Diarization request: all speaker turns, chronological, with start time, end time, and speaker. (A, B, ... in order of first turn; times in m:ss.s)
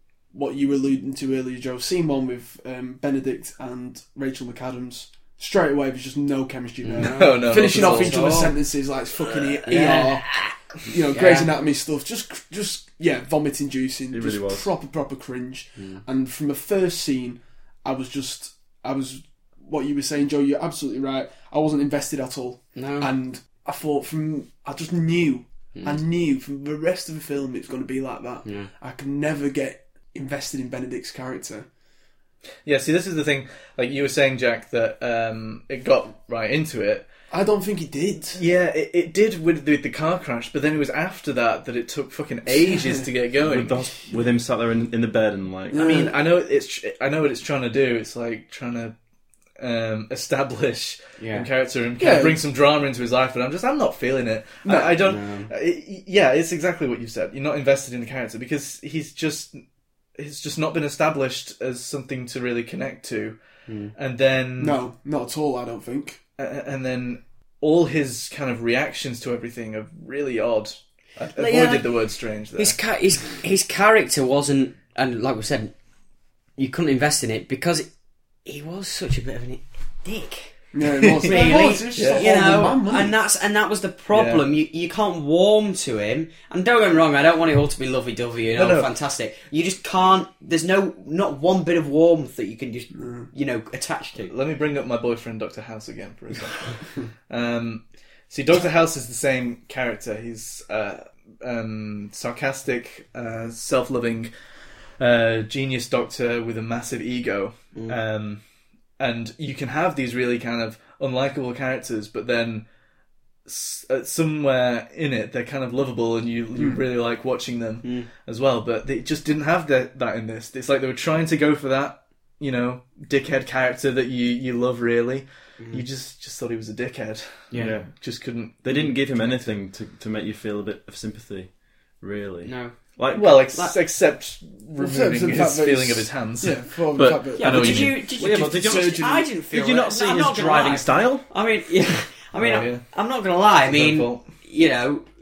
0:00.3-0:10.3 A
0:06.8-0:08.6 B
0:07.0-0:08.3 C
0:09.6-0:11.5 B
0:10.9-0:31.7 A
0:14.1-0:14.7 D
0:15.8-0:16.0 B
0:22.7-0:23.1 B
0:25.7-0:26.0 B
0:28.4-0:28.7 B
0:32.6-0:37.1 C
0:37.3-0:38.4 A
0:38.3-0:43.8 C
0:42.5-0:43.1 A
0:43.4-0:45.8 D
0:45.7-0:46.2 A
0:45.7-0:48.9 C
0:49.6-0:59.6 C
0:51.2-0:51.5 B
0:52.0-0:52.4 A
0:54.6-0:55.0 A
0:55.0-0:55.5 B
1:00.2-1:03.4 C
1:03.7-1:03.9 B
1:03.9-1:04.8 C
1:04.6-1:06.2 A
1:06.4-1:12.8 C
1:11.4-1:11.9 B
1:12.6-1:15.7 B
1:16.6-1:17.9 B
1:18.4-1:20.5 B
1:20.7-1:23.2 A
1:21.2-1:22.3 C
1:21.2-1:34.3 B
1:24.1-1:24.4 C
1:28.5-1:28.9 C
1:32.9-1:33.3 A
1:34.2-1:44.3 C
1:45.0-1:48.4 C
1:49.0-1:52.6 C
1:53.4-2:09.6 C
1:56.6-1:56.8 A
1:57.8-1:58.1 B
2:05.6-2:05.8 B
2:07.5-2:07.8 B
2:07.5-2:08.0 D
2:08.6-2:13.5 D
2:12.4-2:12.8 B
2:13.1-2:18.0 C
2:14.8-2:19.3 A
2:17.4-2:25.0 B
2:18.2-2:21.3 D
2:22.4-2:22.8 C
2:23.6-2:24.2 C